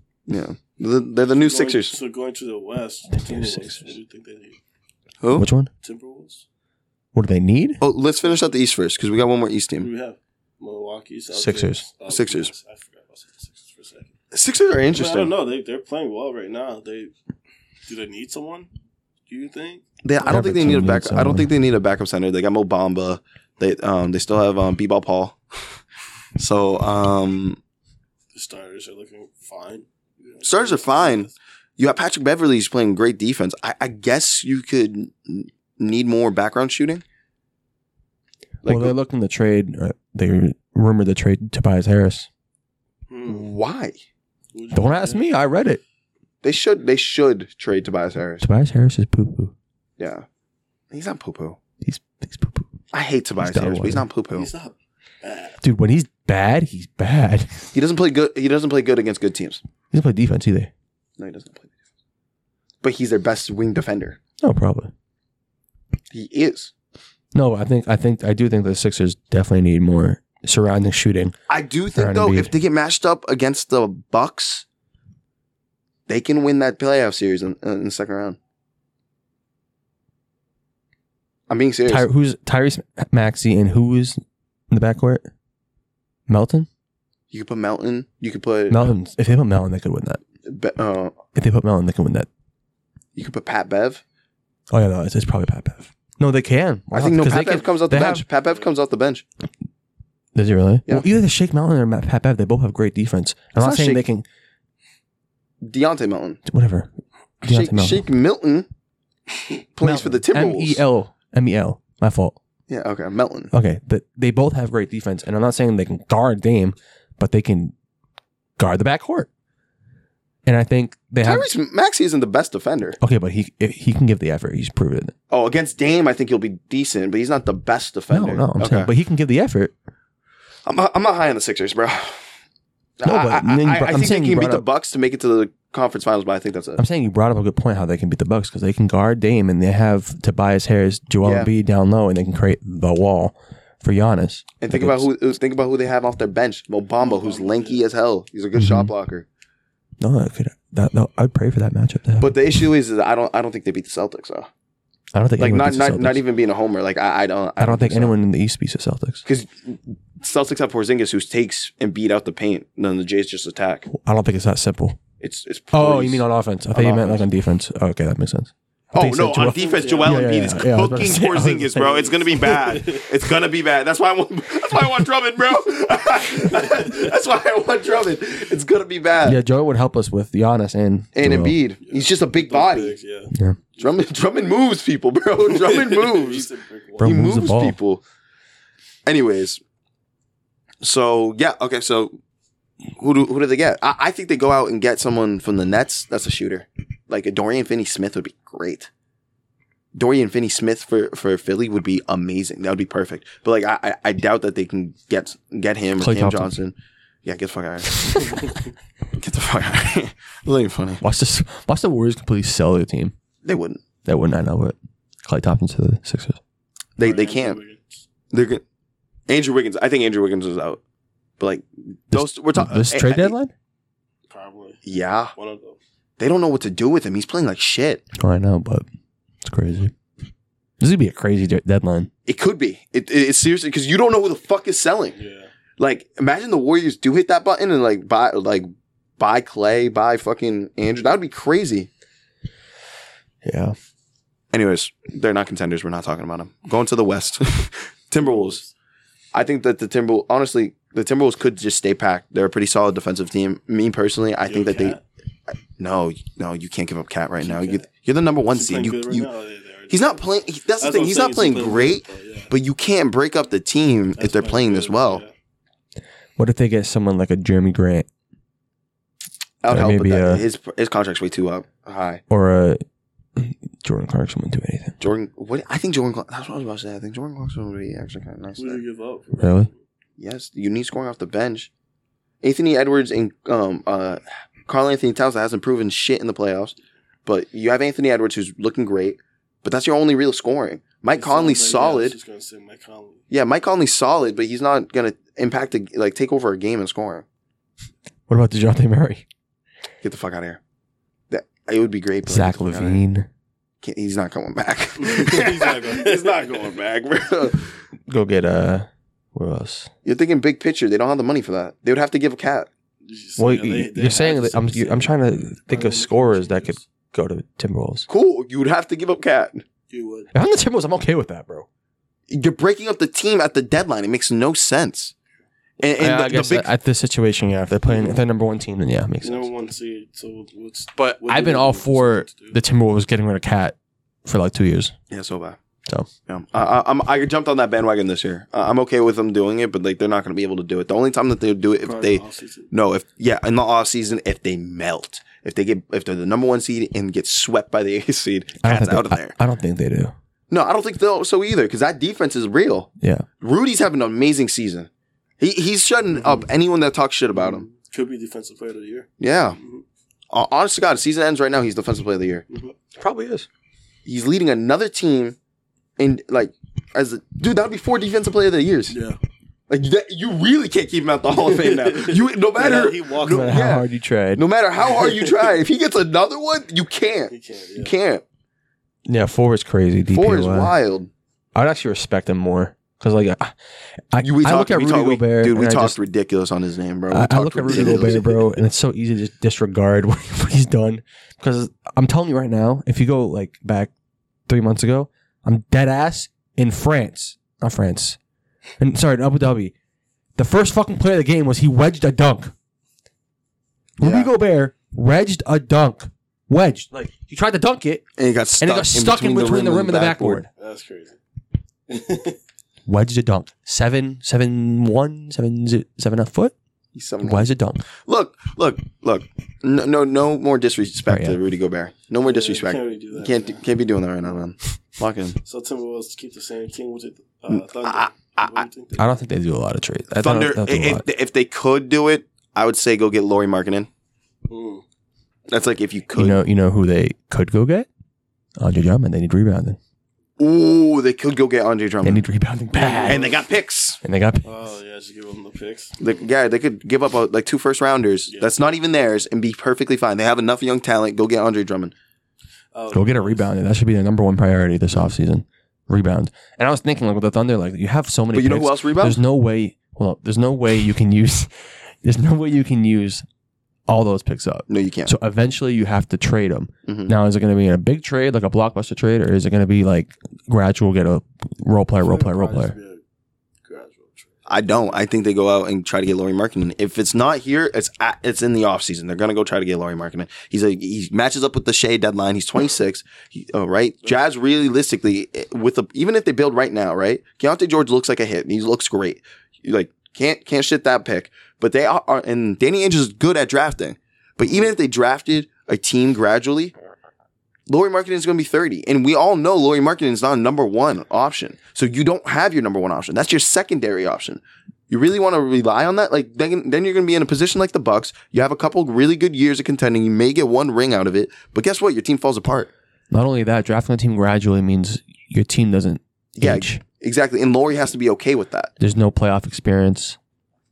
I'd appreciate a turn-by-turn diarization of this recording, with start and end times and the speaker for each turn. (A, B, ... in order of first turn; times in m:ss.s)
0:00.3-0:02.0 A
0:01.3-0:04.6 B
0:03.1-0:03.9 C
0:05.2-0:05.5 A
0:05.3-0:05.7 C
0:05.8-0:06.4 B
0:07.1-0:07.8 C
0:07.8-0:09.9 A
0:09.8-0:14.1 B
0:11.3-0:11.8 C
0:12.1-0:12.5 A
0:14.3-0:15.3 A
0:14.9-0:17.1 B
0:17.8-0:18.7 B
0:19.3-0:19.8 B
0:20.0-0:25.4 A
0:20.2-0:21.5 C
0:26.4-0:27.6 A
0:28.3-0:31.4 B
0:30.4-0:37.0 A
0:38.6-0:38.9 A
0:38.6-0:42.3 C
0:43.1-0:43.5 B
0:43.2-0:44.0 A
0:44.5-0:45.3 B
0:44.7-0:45.8 C
0:46.4-0:48.4 A
0:48.4-0:49.5 C
0:50.0-0:50.2 A
0:50.9-0:51.6 A
0:51.8-0:52.7 C
0:52.9-0:54.5 A
0:53.4-0:54.0 C
0:54.3-0:55.6 B
0:55.6-0:57.7 C
0:57.7-0:59.6 A
0:59.9-1:00.7 C
1:01.2-1:01.7 A
1:02.8-1:04.2 A
1:04.4-1:04.9 C
1:06.1-1:06.7 A
1:07.3-1:11.3 C
1:11.5-1:14.6 A
1:11.9-1:12.5 C
1:16.1-1:18.4 A
1:21.5-1:22.1 A
1:21.9-1:24.2 C
1:24.7-1:25.3 C
1:26.3-1:26.7 C
1:27.3-1:28.9 A
1:28.7-1:30.2 C
1:30.4-1:31.3 A
1:31.3-1:32.3 C
1:33.2-1:34.0 A
1:34.7-1:38.2 C
1:36.9-1:39.2 A
1:40.3-1:44.2 C
1:43.6-1:44.0 A
1:45.6-1:46.4 A
1:46.4-1:46.9 C
1:47.4-1:48.0 C
1:47.4-1:48.7 A
1:49.7-1:50.8 A
1:49.8-1:52.4 C
1:52.7-1:53.5 A
1:53.5-1:57.7 C
1:58.6-1:59.3 C
2:00.4-2:01.5 C
2:01.2-2:03.0 A
2:03.0-2:05.1 C
2:05.3-2:08.9 A
2:08.1-2:09.7 C
2:10.6-2:12.2 A
2:13.0-2:16.8 A
2:13.0-2:14.6 C
2:16.8-2:25.1 C
2:21.2-2:21.5 A
2:24.6-2:29.2 A
2:27.0-2:27.8 B
2:28.5-2:28.9 C
2:30.0-2:32.6 C
2:32.2-2:34.5 A
2:35.1-2:36.2 C
2:35.4-2:38.2 A
2:37.6-2:39.2 C
2:39.2-2:43.9 A
2:43.9-2:45.0 C
2:45.2-2:47.2 A
2:45.7-2:52.2 C
2:48.9-2:59.4 A
2:49.6-2:50.2 B
2:52.4-2:53.1 B
2:59.2-3:01.6 C
3:01.1-3:03.0 A
3:01.8-3:03.9 B
3:03.8-3:06.5 A
3:05.4-3:07.1 B
3:07.0-3:07.8 C
3:07.0-3:08.0 A
3:09.0-3:09.6 A
3:10.8-3:12.2 A
3:13.0-3:18.9 A
3:19.9-3:28.3 A
3:26.0-3:26.5 C
3:28.0-3:28.3 C
3:28.2-3:28.6 B
3:29.1-3:31.0 A
3:31.0-3:33.1 C
3:33.4-3:33.8 A
3:34.0-3:36.4 C
3:37.0-3:37.6 A
3:37.0-3:38.0 B
3:38.3-3:38.6 A
3:39.3-3:40.8 A
3:41.4-3:43.3 A
3:42.1-3:43.5 C
3:44.3-3:44.8 B
3:44.8-3:45.3 A
3:45.3-3:45.8 B
3:46.2-3:48.0 A
3:48.2-3:48.8 C
3:49.4-3:49.9 C
3:50.8-3:52.1 C
3:52.2-3:55.2 A
3:55.1-3:55.5 B
3:55.8-4:01.9 A
4:03.4-4:03.7 C
4:04.5-4:08.6 A
4:08.2-4:08.7 B
4:09.3-4:15.0 A
4:14.4-4:15.0 B
4:15.8-4:19.3 A
4:17.4-4:17.9 B
4:18.5-4:20.2 B
4:19.9-4:25.2 A
4:20.8-4:22.5 B
4:24.2-4:25.3 B
4:26.4-4:28.1 C
4:29.6-4:32.2 A
4:29.7-4:30.4 C
4:32.3-4:32.8 C
4:33.4-4:35.0 C
4:35.0-4:38.8 A
4:38.6-4:39.8 B
4:39.4-4:39.7 C
4:40.2-4:41.7 A
4:42.4-4:46.7 A
4:47.2-4:52.1 A
4:51.1-4:53.2 B
4:53.3-4:57.2 A
4:58.3-4:59.2 C
5:00.0-5:00.6 A
5:01.3-5:03.0 A
5:02.2-5:03.3 C
5:03.8-5:07.7 A
5:05.0-5:06.7 B
5:08.1-5:09.9 C
5:10.0-5:12.7 A
5:13.0-5:15.1 B
5:13.4-5:18.1 C
5:15.7-5:16.8 B
5:18.1-5:19.6 A
5:19.9-5:20.3 B
5:20.3-5:21.7 C
5:22.3-5:25.1 A
5:25.8-5:26.7 A
5:26.0-5:29.5 C
5:27.8-5:28.2 B
5:29.2-5:32.6 B
5:31.0-5:34.9 C
5:35.1-5:35.6 A
5:36.3-5:49.3 A
5:41.8-5:42.7 B
5:48.6-5:50.1 C
5:50.5-5:54.9 A
5:53.0-5:53.3 C
5:55.4-5:57.6 A
5:57.3-5:59.8 B
5:59.2-5:59.6 A
6:00.3-6:02.4 A
6:03.0-6:03.5 C
6:04.0-6:05.4 A
6:06.0-6:09.0 A
6:08.9-6:09.2 B
6:09.7-6:18.2 A
6:11.3-6:13.7 B
6:13.2-6:14.4 C
6:14.8-6:15.6 B
6:17.3-6:17.9 B
6:19.0-6:20.7 C
6:20.1-6:21.1 A
6:21.5-6:23.5 C
6:24.1-6:26.0 C
6:24.2-6:28.4 A
6:27.1-6:33.9 C
6:34.5-6:38.2 C
6:38.8-6:39.7 C
6:40.4-6:42.5 C
6:44.0-6:48.0 C
6:44.0-6:44.3 A
6:48.2-6:50.4 A
6:48.6-6:50.5 C
6:50.6-6:51.2 B
6:51.9-6:52.4 B
6:52.8-6:56.5 C
6:56.9-6:57.5 A
6:57.2-6:57.8 C
6:58.0-7:05.4 A
7:01.1-7:01.4 C
7:02.2-7:03.6 B
7:05.4-7:09.1 B
7:07.5-7:08.6 A
7:09.0-7:11.0 C
7:10.2-7:13.9 A
7:14.5-7:14.8 B
7:15.5-7:16.4 A
7:16.1-7:17.9 C
7:18.6-7:19.8 C
7:20.4-7:22.2 A
7:22.0-7:23.2 C
7:22.7-7:23.4 B
7:23.0-7:24.0 A
7:24.0-7:24.4 C
7:24.4-7:26.0 B
7:26.0-7:31.9 A
7:28.3-7:28.6 B
7:32.7-7:33.5 B
7:32.9-7:43.2 C
7:38.3-7:39.2 A
7:43.9-7:52.7 C
7:44.7-7:45.1 A
7:46.8-7:47.1 A
7:52.0-7:53.0 B
7:53.6-7:54.4 B
7:54.4-8:16.7 A
8:17.7-8:32.7 A
8:33.1-8:36.8 C
8:36.4-8:38.7 A
8:38.8-8:40.2 C